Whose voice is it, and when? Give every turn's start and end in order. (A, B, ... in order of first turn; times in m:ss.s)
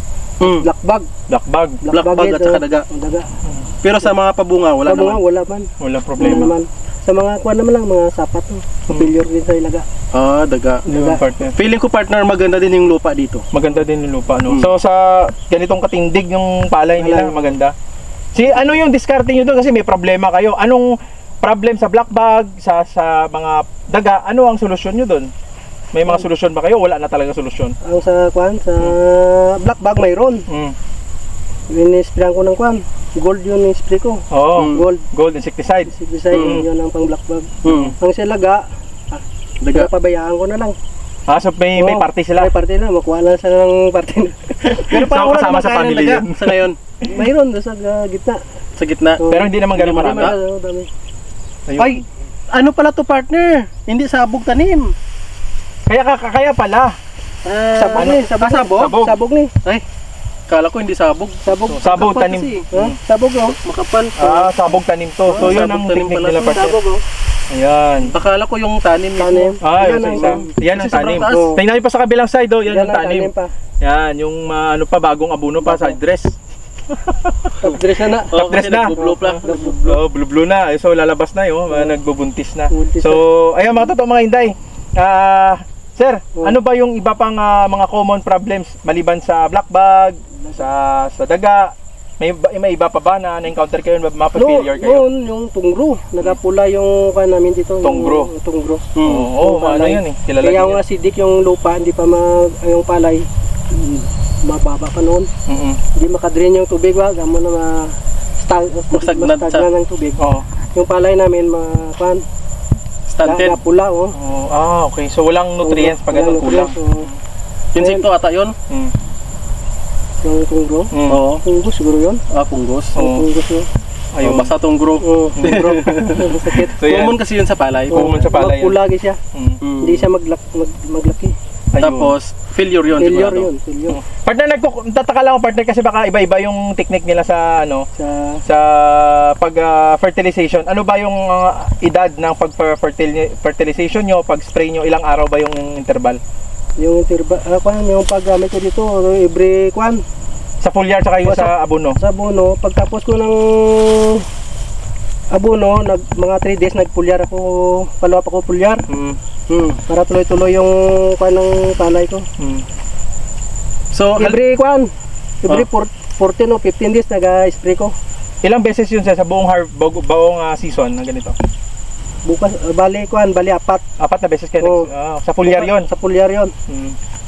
0:00.4-0:01.1 A
0:01.3-0:01.8 B
0:01.8-0:03.3 A
0:01.9-0:02.8 C
0:03.8-0:05.2 C
0:04.8-0:09.8 A
0:05.8-0:06.5 B
0:06.2-0:06.5 C
0:10.1-0:10.8 C
0:10.8-0:11.3 A
0:10.9-0:11.6 B
0:11.5-0:13.4 C
0:13.5-0:17.7 B
0:17.0-0:17.6 A
0:18.3-0:25.3 B
0:25.9-0:27.7 B
0:27.8-0:30.4 A
0:30.5-0:30.8 B
0:31.7-0:35.0 A
0:34.3-0:36.6 B
0:34.5-0:34.8 C
0:35.9-0:40.8 A
0:36.3-0:36.6 C
0:37.6-0:38.0 C
0:37.6-0:37.9 B
0:39.6-0:39.9 C
0:41.3-0:42.5 B
0:41.7-0:45.0 A
0:44.9-0:46.6 B
0:44.9-0:46.8 C
0:47.0-0:48.4 A
0:48.8-0:49.2 C
0:49.2-0:50.9 A
0:49.3-0:50.3 B
0:49.8-0:50.3 C
0:51.7-0:52.0 B
0:51.8-0:54.9 C
0:55.9-0:57.0 B
0:57.4-0:59.0 C
0:57.7-0:59.5 A
0:58.8-0:59.2 B
1:00.5-1:02.7 C
1:01.4-1:02.0 A
1:01.7-1:03.0 B
1:02.7-1:03.6 A
1:03.6-1:04.5 C
1:04.2-1:06.8 B
1:05.3-1:06.7 C
1:06.4-1:07.0 A
1:07.5-1:08.1 B
1:08.1-1:11.5 C
1:09.2-1:10.5 A
1:09.6-1:16.3 B
1:11.2-1:11.6 A
1:12.7-1:13.5 A
1:15.6-1:16.0 A
1:16.9-1:17.7 B
1:17.6-1:18.3 A
1:18.3-1:20.0 C
1:18.3-1:35.0 B
1:19.0-1:19.8 A
1:21.7-1:22.0 A
1:22.7-1:23.2 A
1:34.3-1:45.3 A
1:37.8-1:38.3 B
1:38.9-1:39.3 C
1:39.0-1:40.8 B
1:45.5-1:45.8 B
1:45.9-1:50.2 A
1:48.9-1:49.6 C
1:50.2-1:50.4 B
1:50.7-1:52.2 A
1:53.1-1:53.6 C
1:53.2-1:54.1 A
1:54.1-1:57.2 B
1:55.6-1:57.1 A
1:57.7-1:58.5 C
1:57.8-1:58.0 A
2:00.2-2:00.9 A
2:00.9-2:01.2 B
2:01.1-2:01.4 C
2:01.4-2:02.2 A
2:02.3-2:02.9 C
2:03.0-2:03.2 B
2:03.0-2:03.7 A
2:04.1-2:04.5 B
2:04.2-2:08.2 C
2:05.0-2:06.7 A
2:05.4-2:07.2 B
2:07.9-2:08.8 B
2:07.9-2:09.2 A
2:09.3-2:09.6 B
2:09.6-2:10.1 C
2:09.8-2:11.3 A
2:11.7-2:12.1 B
2:11.8-2:13.5 C
2:13.0-2:14.0 A
2:13.9-2:17.9 B
2:18.0-2:18.4 A
2:18.4-2:26.2 B
2:26.8-2:30.0 A
2:30.6-2:32.0 B
2:31.2-2:34.2 A
2:35.3-2:38.8 A
2:38.9-2:39.2 B
2:39.5-2:39.8 C
2:39.9-2:42.2 A
2:42.4-2:42.6 B
2:43.9-2:44.3 C
2:44.1-2:44.9 A
2:45.4-2:47.9 A
2:48.4-2:51.3 B
2:52.2-2:53.8 A
2:54.0-2:55.9 B
2:54.6-2:54.9 A
2:55.4-2:56.5 A
2:56.7-2:57.0 B